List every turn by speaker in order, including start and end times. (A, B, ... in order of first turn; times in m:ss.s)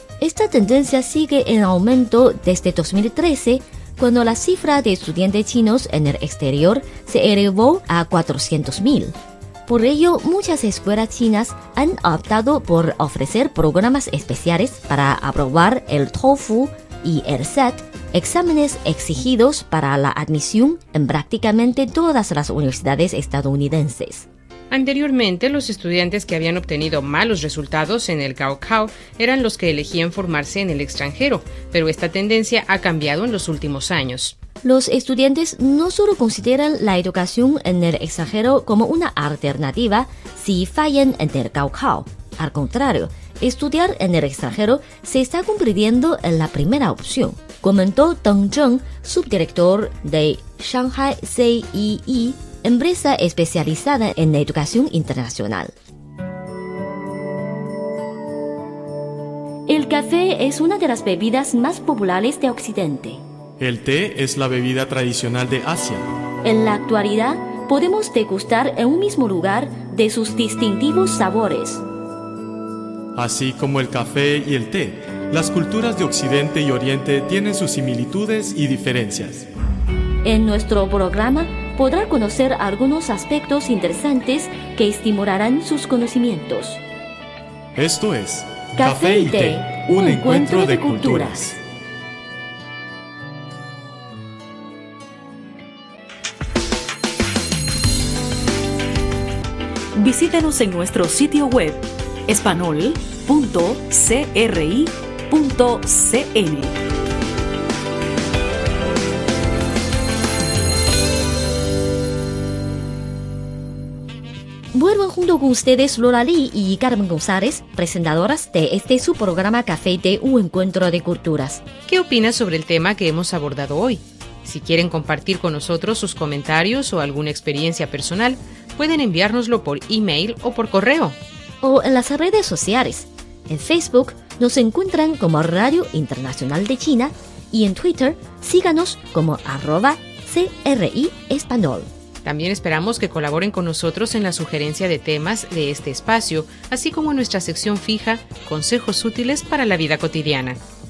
0:00.2-0:09.1 A
0:09.7-0:24.3 A
0:24.7-0:34.4 B
0:34.6-0:55.7 A
0:59.7-1:03.2 A
1:03.6-1:06.0 C
1:06.4-1:11.8 A
1:13.2-1:19.5 C
1:20.2-1:26.8 A
1:27.8-1:31.5 C
1:28.8-1:31.5 A
1:39.9-1:46.7 D
1:54.7-2:01.6 A
2:01.9-2:11.2 B
2:11.6-2:21.9 A
2:22.2-2:30.6 B